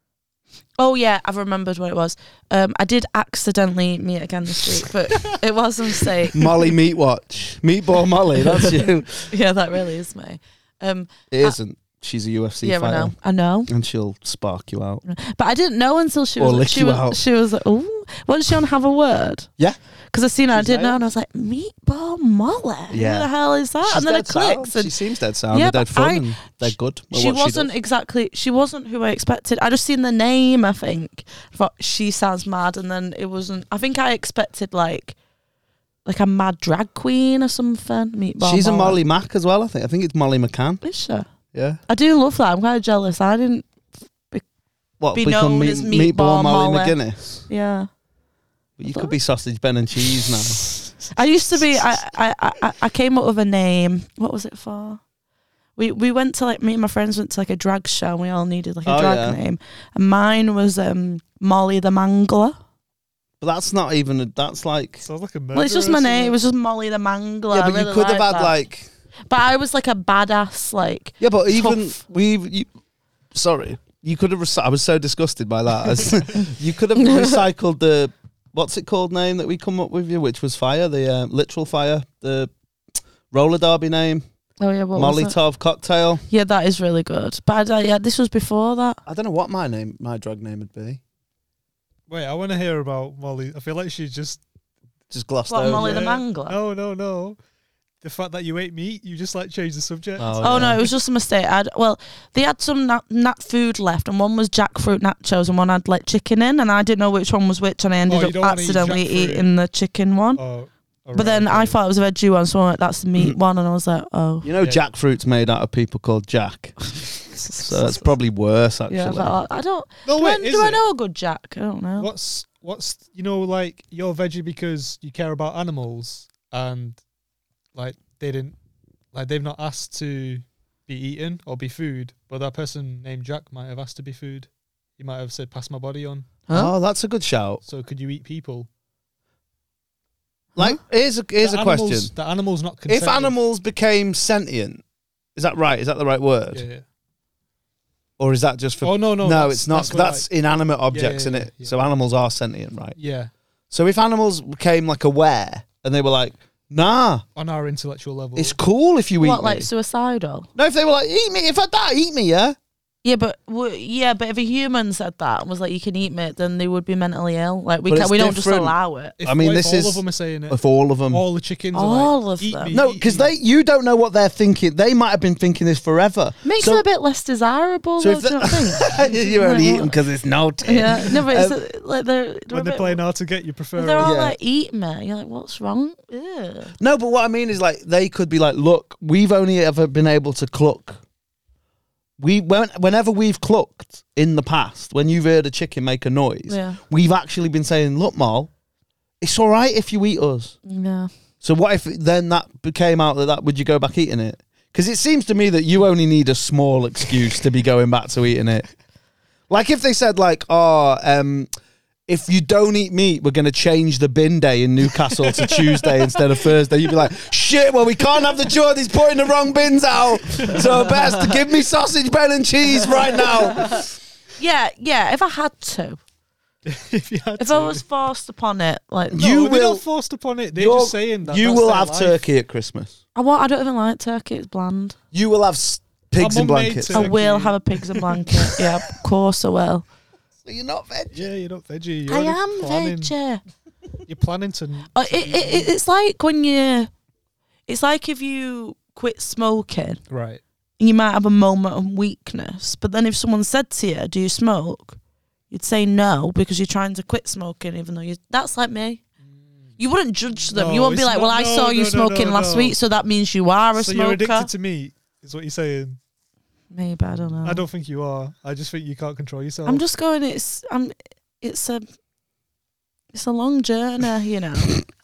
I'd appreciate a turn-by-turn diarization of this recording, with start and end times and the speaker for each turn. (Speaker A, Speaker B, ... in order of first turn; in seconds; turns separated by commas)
Speaker A: 0.8-6.6, Speaker B: 6.3-9.3, Speaker A: 9.3-11.6, Speaker B: 11.3-13.1, Speaker A: 12.6-13.7, Speaker B: 13.7-15.0, Speaker A: 15.1-19.5, Speaker B: 16.4-17.2, Speaker A: 20.1-25.0, Speaker B: 20.5-21.0, Speaker B: 22.9-23.3, Speaker B: 23.8-27.7, Speaker A: 25.5-35.2, Speaker A: 36.1-39.0, Speaker B: 38.4-40.8, Speaker A: 40.8-41.3, Speaker B: 41.5-41.8, Speaker A: 41.9-43.7, Speaker B: 45.0-47.5, Speaker A: 45.1-47.0, Speaker A: 47.5-47.9, Speaker B: 48.8-50.6, Speaker A: 51.1-55.0, Speaker A: 55.8-62.6, Speaker B: 58.9-59.4, Speaker B: 63.4-65.0, Speaker C: 65.0-66.4, Speaker A: 65.5-68.5, Speaker B: 67.5-68.9, Speaker A: 69.3-72.0, Speaker B: 71.2-72.7, Speaker B: 73.3-82.5, Speaker A: 77.0-77.4, Speaker B: 83.3-84.2, Speaker A: 84.6-85.4, Speaker B: 85.0-86.2, Speaker A: 86.3-89.0, Speaker B: 89.1-91.0, Speaker C: 92.1-94.4, Speaker B: 95.1-96.1, Speaker A: 95.5-96.6, Speaker C: 95.7-97.4, Speaker C: 98.0-100.7, Speaker B: 100.2-100.8, Speaker A: 100.4-110.4, Speaker C: 108.1-109.5, Speaker C: 110.4-111.8, Speaker A: 111.1-114.5, Speaker B: 114.4-116.8, Speaker A: 117.4-118.1, Speaker B: 117.6-119.4, Speaker A: 118.9-122.1, Speaker C: 120.1-120.8, Speaker C: 122.0-127.0, Speaker C: 127.8-128.6, Speaker C: 129.1-136.3, Speaker B: 136.5-137.6, Speaker C: 137.6-138.7, Speaker B: 140.6-142.1, Speaker C: 141.4-143.4, Speaker B: 142.9-144.8, Speaker B: 145.4-146.7, Speaker C: 146.5-146.8, Speaker B: 148.2-153.0, Speaker C: 148.8-150.3, Speaker C: 150.9-151.8, Speaker C: 153.0-153.3, Speaker B: 153.7-157.2, Speaker C: 157.4-158.6, Speaker B: 158.4-159.7, Speaker A: 159.2-160.5, Speaker B: 160.6-162.6, Speaker A: 163.0-169.1, Speaker B: 167.9-171.2, Speaker C: 169.2-173.3, Speaker A: 171.7-172.8, Speaker B: 172.7-176.8, Speaker A: 176.4-179.9, Speaker B: 178.0-181.6, Speaker A: 180.6-183.0, Speaker C: 182.5-184.1, Speaker A: 183.8-186.7, Speaker B: 184.0-184.4, Speaker B: 186.8-191.0, Speaker B: 192.2-198.5, Speaker A: 196.5-196.8, Speaker B: 199.2-200.6, Speaker A: 200.7-201.1, Speaker B: 201.4-208.7, Speaker B: 209.5-211.5, Speaker B: 212.1-223.8, Speaker C: 215.1-216.3, Speaker A: 224.4-226.0, Speaker C: 226.7-227.8, Speaker A: 227.4-229.3, Speaker B: 229.1-229.8, Speaker C: 229.2-232.2, Speaker B: 230.5-233.0, Speaker A: 233.2-235.0, Speaker B: 235.1-237.2, Speaker C: 236.2-238.6, Speaker A: 236.9-239.9, Speaker B: 240.4-241.2, Speaker C: 241.1-243.1, Speaker A: 242.1-243.4, Speaker C: 244.1-245.7, Speaker A: 244.9-246.9, Speaker A: 247.7-250.0, Speaker C: 250.1-250.4, Speaker A: 250.8-255.0, Speaker A: 255.5-259.0, Speaker A: 259.8-264.5, Speaker C: 260.5-262.8, Speaker C: 263.8-266.0, Speaker A: 266.7-267.7, Speaker C: 267.4-269.8, Speaker A: 269.7-271.9, Speaker A: 273.1-274.8